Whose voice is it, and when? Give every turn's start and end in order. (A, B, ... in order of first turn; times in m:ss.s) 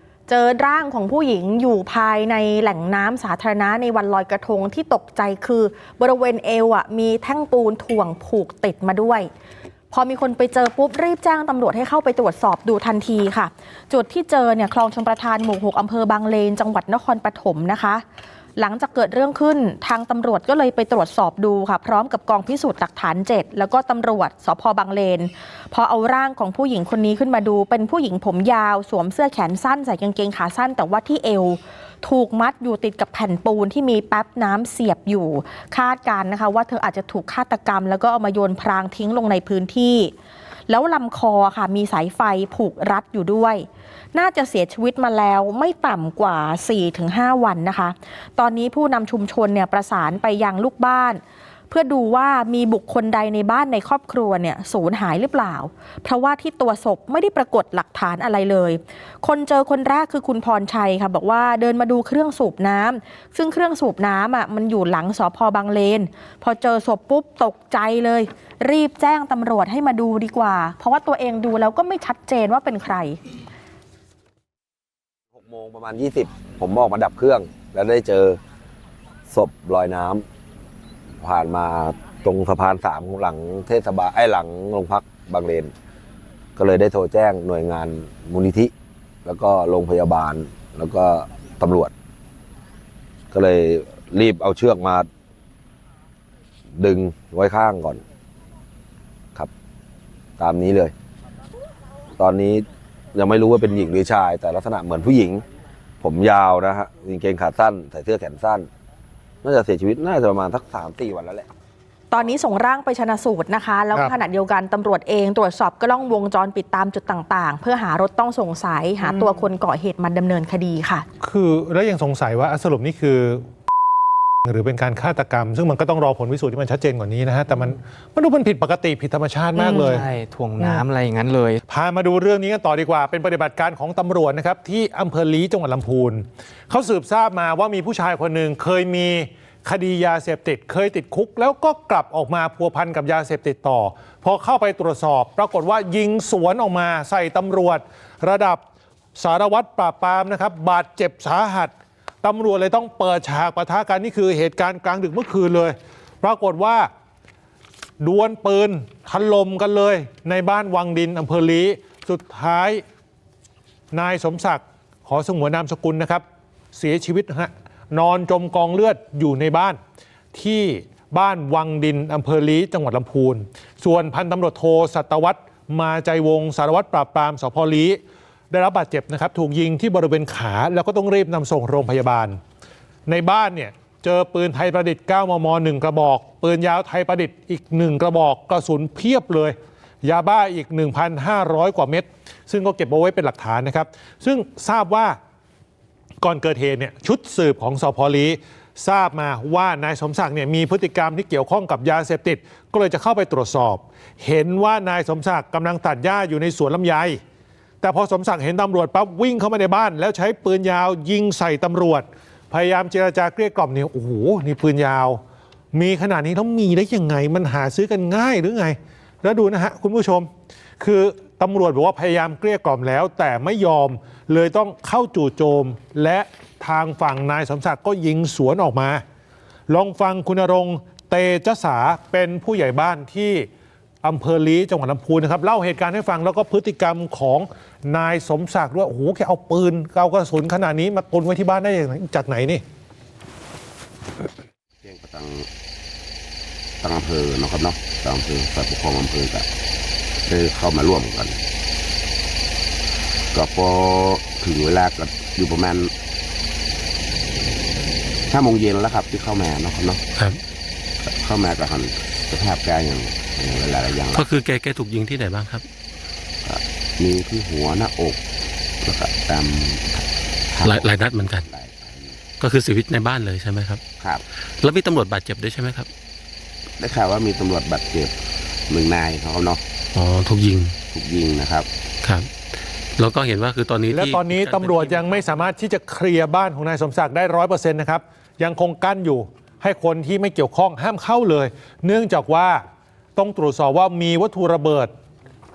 0:00.3-0:09.3 A
0:09.9-0:18.0 A
0:18.6-0:40.1 A
0:40.7-1:13.2 A
1:15.3-1:18.4 B
1:19.3-1:20.3 B
1:21.2-1:25.7 B
1:26.6-1:28.7 B
1:29.2-1:31.9 B
1:33.3-1:35.1 B
1:36.8-1:38.0 B
1:40.4-1:40.9 B
1:42.2-1:45.4 B
1:46.0-1:48.7 B
1:49.4-1:51.5 B
1:52.1-2:01.1 A
2:01.2-2:03.4 C
2:04.4-2:10.1 C
2:09.6-2:11.6 D
2:11.7-2:28.6 C
2:29.2-2:31.7 C
2:32.2-2:36.9 C
2:38.0-2:42.8 C
2:43.9-2:49.8 C
2:50.3-2:58.0 C
2:58.5-3:02.4 C
3:03.1-3:15.2 C
3:16.2-3:27.2 C
3:27.8-3:35.2 C
3:35.7-3:40.3 C
3:40.8-3:49.0 C
3:49.7-3:53.5 C
3:54.0-4:02.6 C
4:04.8-4:05.5 E
4:06.8-4:09.5 E
4:10.2-4:11.4 E
4:13.3-4:15.9 E
4:18.3-4:20.0 E
4:20.2-4:20.4 F
4:21.0-4:24.3 E
4:24.1-4:25.7 F
4:26.4-4:28.2 E
4:28.8-4:32.2 E
4:30.6-4:31.5 F
4:32.4-4:33.8 F
4:34.5-4:35.9 F
4:36.8-4:38.2 E
4:38.7-4:39.6 E
4:40.0-4:40.8 F
4:40.9-4:41.7 E
4:42.0-4:42.3 F
4:43.0-4:45.5 F
4:43.9-4:52.6 C
4:53.2-4:54.9 C